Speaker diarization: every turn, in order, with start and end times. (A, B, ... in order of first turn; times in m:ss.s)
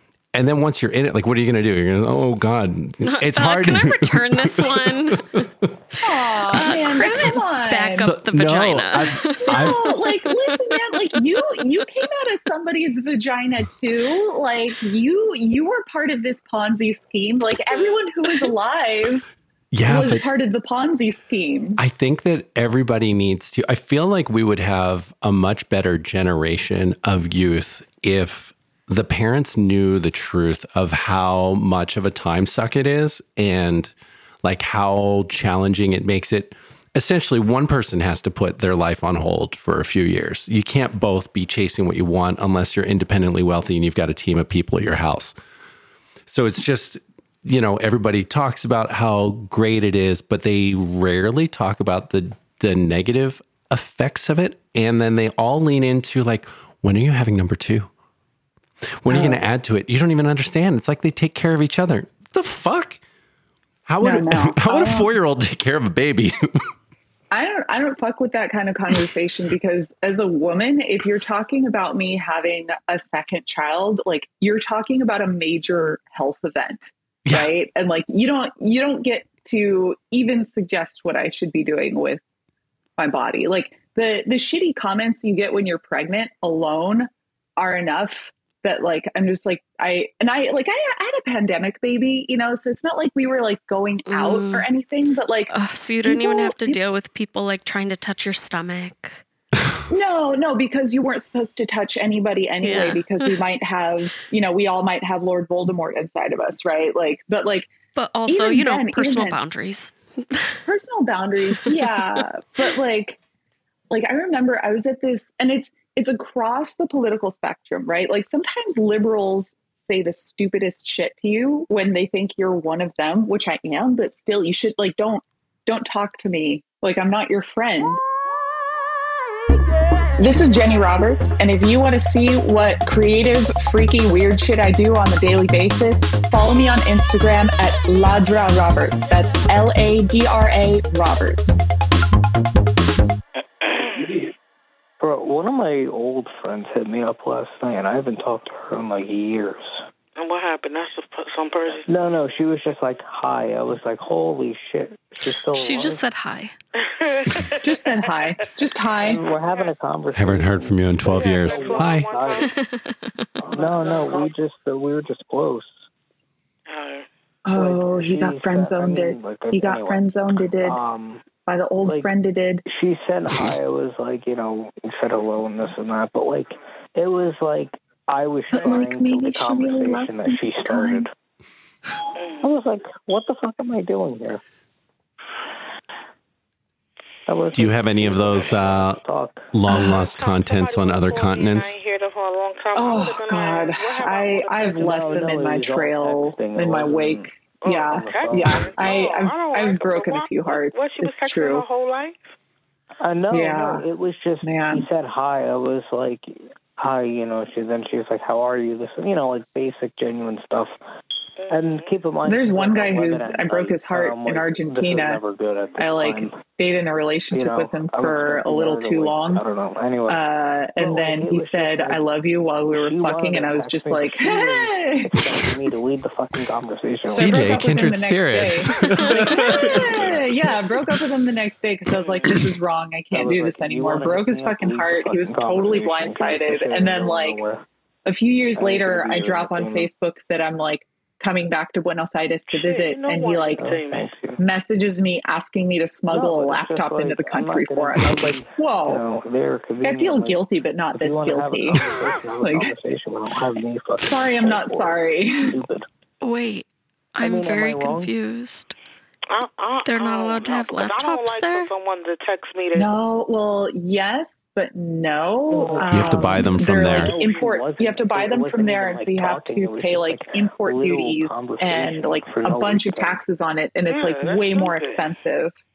0:00.3-0:05.7 A
0:03.0-0:05.2 B
0:06.0-0:08.1 C
0:06.5-0:10.0 B
0:08.0-0:09.9 A
0:09.5-0:19.2 C
0:19.7-0:20.2 A
0:19.9-0:21.8 C
0:21.8-0:45.4 A
0:46.3-0:57.9 A
0:59.0-1:03.0 A
0:59.1-0:59.4 C
1:03.9-1:06.4 A
1:04.0-1:05.1 C
1:07.3-1:22.2 C
1:23.0-1:35.5 C
1:34.1-1:34.7 B
1:35.5-1:39.2 B
1:36.0-1:36.8 C
1:39.9-1:47.7 C
1:42.6-1:43.4 B
1:47.9-1:50.6 B
1:48.3-1:49.4 C
1:50.7-1:53.2 C
1:53.9-2:08.0 C
2:10.2-2:21.7 C
2:23.6-2:24.1 D
2:25.0-2:29.9 E
2:30.2-2:31.9 D
2:31.9-2:36.0 E
2:35.5-2:36.5 B
2:36.8-2:38.1 D
2:37.6-2:39.2 C
2:39.0-2:42.5 E
2:40.1-2:42.1 A
2:41.0-2:42.5 D
2:42.4-2:43.1 B
2:43.4-2:45.9 E
2:43.5-2:44.3 D
2:46.7-2:47.1 D
2:47.5-2:50.8 C
2:47.5-2:50.1 E
2:50.6-2:51.2 E
2:51.5-2:52.6 C
2:51.8-2:52.1 E
2:52.7-3:01.1 E
2:58.5-3:01.1 C
3:02.2-3:02.5 D
3:02.4-3:04.4 E
3:07.3-3:09.5 E
3:07.5-3:09.0 A
3:09.5-3:11.8 A
3:09.7-3:10.0 C
3:10.0-3:14.8 D
3:12.8-3:21.6 C
3:14.6-3:18.9 E
3:17.6-3:22.2 D
3:23.0-3:30.8 E
3:23.3-3:23.9 C
3:24.4-3:24.9 C
3:31.4-3:31.9 D
3:31.5-3:36.4 E
3:32.3-3:35.2 C
3:35.8-3:39.4 C
3:37.3-3:40.2 E
3:40.1-3:45.1 C
3:40.8-3:42.0 E
3:42.7-3:47.6 E
3:47.0-3:57.4 C
3:47.2-3:50.0 A
3:49.0-3:49.6 B
3:50.0-3:50.3 E
3:52.0-3:52.3 D
3:53.1-3:57.6 E
3:58.1-4:03.7 C
3:58.6-3:59.9 E
4:02.5-4:04.1 D
4:03.6-4:04.4 E
4:04.4-4:09.0 C
4:06.1-4:10.4 E
4:09.8-4:11.8 C
4:10.9-4:15.9 E
4:12.4-4:12.7 C
4:14.0-4:15.5 C
4:16.2-4:18.7 B
4:17.2-4:18.1 E
4:19.3-4:23.0 D
4:19.8-4:21.7 B
4:22.8-4:35.5 C
4:25.5-4:33.2 E
4:25.9-4:27.2 A
4:33.9-4:35.1 D